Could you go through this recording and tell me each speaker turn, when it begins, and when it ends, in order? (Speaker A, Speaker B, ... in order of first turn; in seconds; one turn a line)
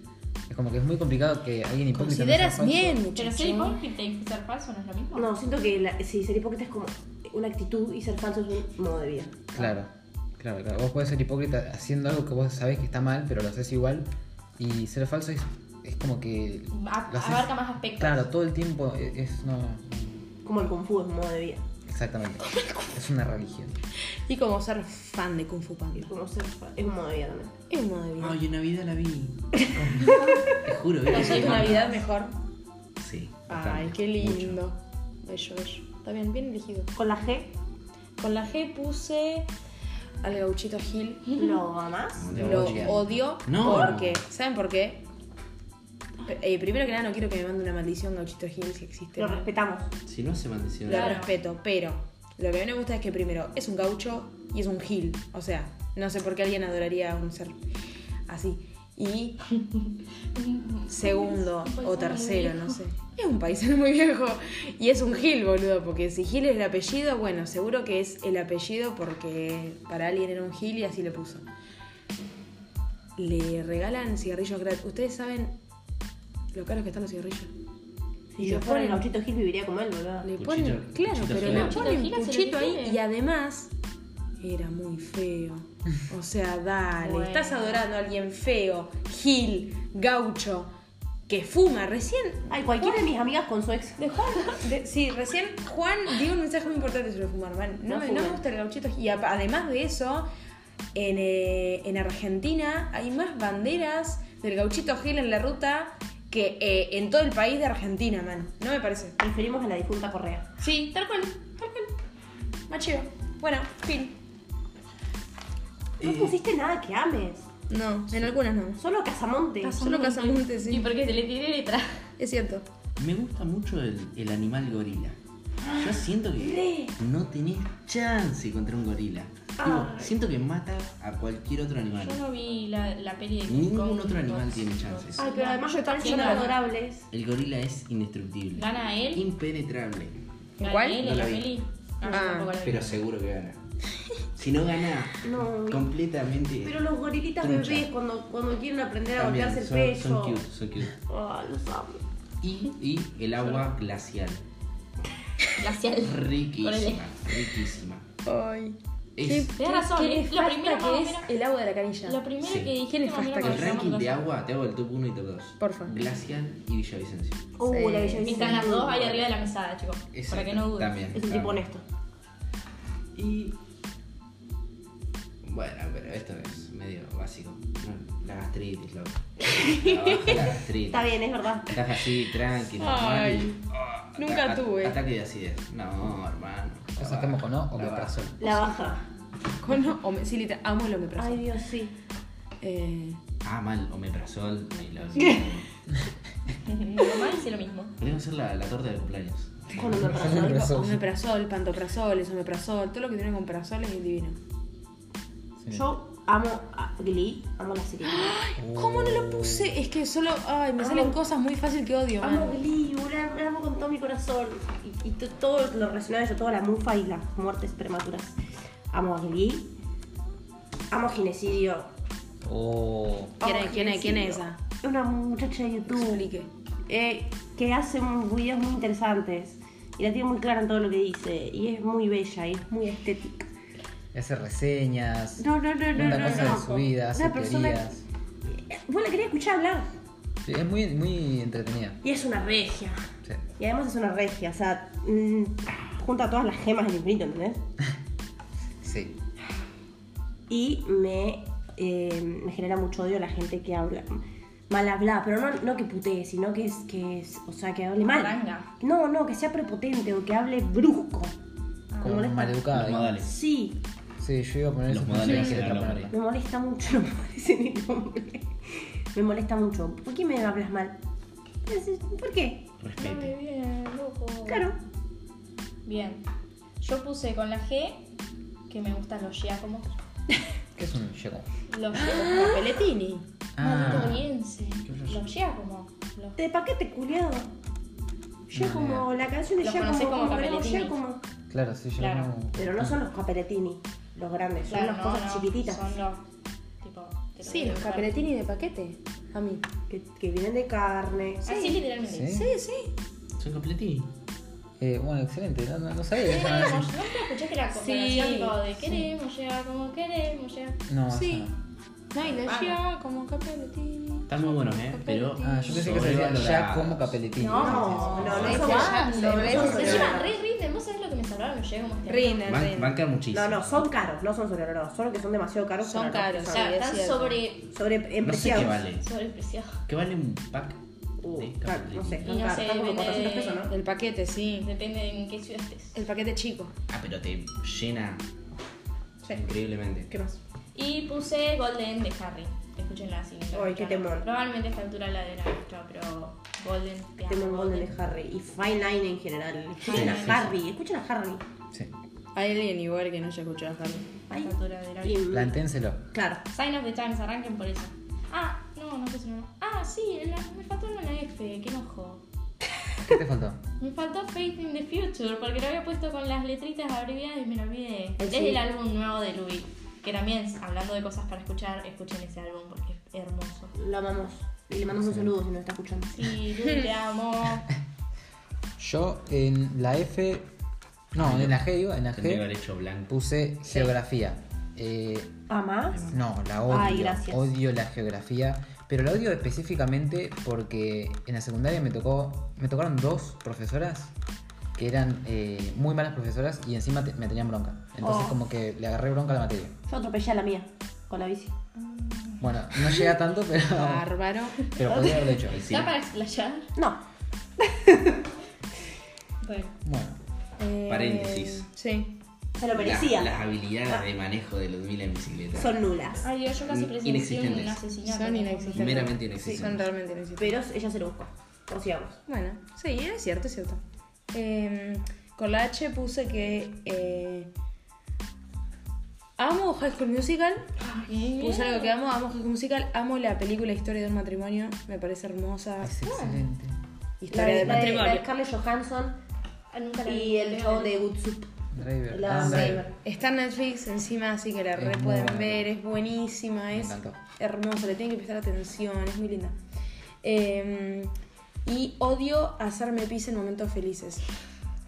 Speaker A: 0.5-3.0
Speaker B: 1.9-3.8
Speaker C: 3.1-5.3
Speaker D: 5.2-9.4
Speaker A: 9.5-20.2
Speaker C: 16.7-18.2
Speaker D: 20.4-21.6
Speaker A: 21.9-23.8
Speaker B: 22.6-22.8
Speaker B: 24.2-26.1
Speaker D: 25.9-27.5
Speaker B: 27.7-28.4
Speaker E: 28.2-32.0
Speaker D: 30.2-30.6
Speaker B: 31.1-32.3
Speaker E: 33.0-34.6
Speaker D: 33.5-33.8
Speaker B: 33.7-36.9
Speaker D: 37.0-37.5
Speaker B: 38.2-39.5
Speaker B: 40.2-41.3
Speaker D: 41.4-42.4
Speaker E: 42.2-44.2
Speaker B: 42.3-45.0
Speaker A: 42.3-43.1
Speaker B: 46.2-49.5
Speaker D: 49.2-49.9
Speaker E: 50.1-51.2
Speaker B: 50.9-57.6
Speaker C: 50.9-51.3
Speaker B: 58.3-59.5
Speaker C: 60.4-62.8
Speaker B: 60.9-71.5
Speaker B: 73.2-75.6
Speaker B: 76.5-77.5
Speaker D: 78.3-80.4
Speaker B: 78.4-79.0
Speaker E: 80.4-81.8
Speaker B: 80.4-83.7
Speaker C: 81.3-83.0
Speaker B: 84.4-90.7
Speaker C: 87.0-87.8
Speaker B: 91.3-93.1
Speaker D: 92.5-94.0
Speaker B: 94.0-100.3
Speaker D: 97.9-98.4
Speaker B: 101.0-109.2
Speaker D: 109.2-110.5
Speaker B: 110.6-111.9
Speaker B: 112.7-114.2
Speaker D: 116.0-117.5
Speaker E: 116.0-116.4
Speaker B: 117.7-118.8
Speaker D: 118.8-119.8
Speaker B: 119.6-120.9
Speaker C: 119.6-122.1
Speaker B: 122.2-122.7
Speaker E: 123.0-125.2
Speaker D: 125.6-126.9
Speaker E: 125.7-132.2
Speaker D: 129.6-130.2
Speaker C: 132.0-136.6
Speaker E: 133.5-135.2
Speaker D: 135.2-137.1
Speaker E: 137.1-140.2
Speaker C: 138.6-139.2
Speaker B: 140.6-141.0
Speaker C: 140.6-143.0
Speaker E: 141.0-141.6
Speaker B: 142.0-142.5
Speaker E: 142.6-143.6
Speaker E: 144.4-146.9
Speaker D: 145.2-145.9
Speaker D: 146.6-150.4
Speaker E: 147.4-147.9
Speaker E: 149.2-151.0
Speaker D: 151.1-152.0
Speaker E: 152.4-154.4
Speaker C: 155.6-157.1
Speaker E: 156.0-158.1
Speaker B: 158.2-162.2
Speaker E: 159.2-159.5
Speaker C: 159.6-161.3
Speaker C: 162.0-164.2
Speaker E: 162.4-162.7
Speaker B: 162.8-164.0
Speaker E: 163.4-167.5
Speaker B: 165.6-165.9
Speaker D: 167.6-169.2
Speaker B: 167.6-168.4
Speaker C: 168.2-171.0
Speaker E: 170.1-171.7
Speaker D: 171.1-171.8
Speaker E: 173.2-173.6
Speaker E: 175.4-181.1
Speaker D: 179.4-181.8
Speaker E: 181.7-188.2
Speaker B: 182.8-183.6
Speaker B: 184.2-185.0
Speaker A: 187.0-188.7
Speaker D: 188.4-189.1
Speaker B: 189.6-191.6
Speaker D: 191.2-191.9
Speaker B: 192.6-193.2
Speaker E: 193.4-195.7
Speaker C: 196.7-197.9
Speaker E: 198.0-200.3
Speaker D: 199.7-200.7
Speaker A: 199.9-201.1
Speaker B: 200.3-204.4
Speaker A: 205.6-205.9
Speaker D: 205.7-208.3
Speaker B: 208.1-212.6
Speaker A: 208.6-209.8
Speaker D: 210.8-211.2
Speaker D: 212.2-218.4
Speaker D: 218.9-219.7
Speaker D: 220.9-221.9
Speaker A: 222.4-223.4
Speaker D: 223.4-226.2
Speaker B: 223.4-224.6
Speaker B: 225.9-226.5
Speaker D: 226.9-233.5
Speaker A: 234.1-238.1
Speaker D: 235.4-237.9
Speaker B: 236.0-236.6
Speaker C: 236.0-236.8
Speaker D: 238.5-239.9
Speaker A: 240.4-242.0
Speaker D: 242.0-243.1
Speaker D: 243.6-247.6
Speaker A: 248.8-249.2
Speaker D: 250.5-261.4
Speaker C: 258.0-258.7
Speaker C: 261.9-262.3
Speaker D: 262.0-262.6
Speaker A: 262.0-263.2
Speaker E: 262.7-263.3
Speaker D: 263.2-263.8
Speaker A: 264.2-266.1
Speaker E: 264.9-266.1
Speaker D: 266.1-270.9
Speaker D: 271.7-272.7
Speaker E: 272.8-273.3
Speaker C: 273.0-274.7
Speaker D: 274.5-274.8
Speaker C: 275.9-276.2
Speaker C: 276.8-278.1
Speaker C: 278.7-280.0
Speaker A: 280.8-281.5
Speaker C: 281.7-282.6
Speaker B: 281.9-283.2
Speaker D: 282.2-282.6
Speaker A: 283.6-284.2
Speaker C: 283.6-286.4
Speaker E: 284.9-285.1
Speaker D: 286.4-287.5
Speaker D: 288.5-291.2
Speaker A: 288.5-289.1
Speaker C: 289.6-291.0
Speaker A: 291.5-293.0
Speaker C: 292.0-292.3
Speaker D: 292.6-295.9
Speaker C: 294.7-296.2
Speaker C: 296.8-298.3
Speaker B: 297.4-299.7
Speaker D: 299.9-301.8
Speaker C: 301.4-302.4
Speaker A: 302.0-302.5
Speaker B: 302.2-302.9
Speaker E: 303.4-304.1
Speaker A: 304.8-306.9
Speaker C: 306.2-310.8
Speaker B: 307.7-309.1
Speaker A: 310.9-311.5
Speaker B: 311.1-311.5
Speaker B: 312.1-315.9
Speaker C: 312.2-312.8
Speaker E: 314.3-320.2
Speaker A: 315.4-318.4
Speaker C: 317.4-322.5
Speaker D: 317.6-320.3
Speaker B: 318.3-320.3
Speaker B: 322.1-322.9
Speaker E: 322.5-323.9
Speaker D: 323.3-326.7
Speaker B: 325.8-327.4
Speaker C: 326.5-327.7
Speaker D: 327.7-328.8
Speaker E: 328.2-329.1
Speaker C: 329.0-329.8
Speaker E: 329.9-330.8
Speaker D: 331.2-333.7
Speaker E: 331.3-332.4
Speaker C: 332.3-333.7
Speaker B: 333.7-334.7
Speaker C: 334.6-336.0
Speaker B: 335.9-336.7
Speaker E: 336.9-338.2
Speaker E: 339.3-340.1
Speaker D: 340.1-340.4
Speaker C: 340.8-347.9
Speaker D: 343.5-344.3
Speaker D: 347.3-351.4
Speaker C: 349.8-350.4
Speaker E: 349.9-350.5
Speaker A: 349.9-350.5
Speaker B: 352.3-354.1
Speaker D: 354.3-355.6
Speaker C: 354.4-355.3
Speaker A: 355.3-356.0
Speaker D: 356.1-356.4
Speaker C: 356.5-362.2
Speaker A: 363.0-363.6
Speaker C: 363.8-373.7
Speaker D: 368.2-368.6
Speaker D: 373.8-376.1
Speaker A: 375.0-375.3
Speaker C: 376.1-377.7
Speaker A: 378.8-380.5
Speaker A: 381.1-382.4
Speaker E: 381.1-383.1
Speaker A: 383.1-385.4
Speaker D: 385.5-386.1
Speaker E: 385.9-386.2
Speaker A: 386.1-394.1
Speaker D: 386.6-387.5
Speaker A: 394.8-399.7
Speaker D: 398.0-398.4
Speaker D: 399.9-401.5
Speaker C: 401.8-402.5
Speaker A: 402.4-404.1
Speaker B: 403.7-404.7
Speaker A: 404.6-405.7
Speaker C: 404.7-406.7
Speaker E: 405.5-405.9
Speaker D: 407.6-408.2
Speaker C: 409.4-409.7
Speaker A: 409.8-410.2
Speaker B: 410.6-412.1
Speaker E: 410.9-411.7
Speaker D: 412.6-413.4
Speaker E: 412.8-415.8
Speaker D: 415.6-416.3
Speaker C: 416.2-419.1
Speaker E: 416.7-417.8
Speaker B: 418.0-420.6
Speaker E: 418.7-419.9
Speaker D: 420.4-422.2
Speaker B: 422.3-423.8
Speaker B: 424.3-427.5
Speaker B: 429.4-430.7
Speaker C: 430.8-432.0
Speaker B: 431.2-435.9
Speaker A: 435.8-436.8
Speaker C: 436.0-436.4
Speaker B: 437.2-438.3
Speaker D: 437.3-439.2
Speaker C: 439.7-441.0
Speaker D: 440.1-441.5
Speaker A: 441.8-442.8
Speaker D: 442.1-443.0
Speaker B: 442.3-449.6
Speaker A: 444.7-445.7
Speaker A: 446.7-447.2
Speaker B: 450.2-451.1
Speaker B: 451.6-454.2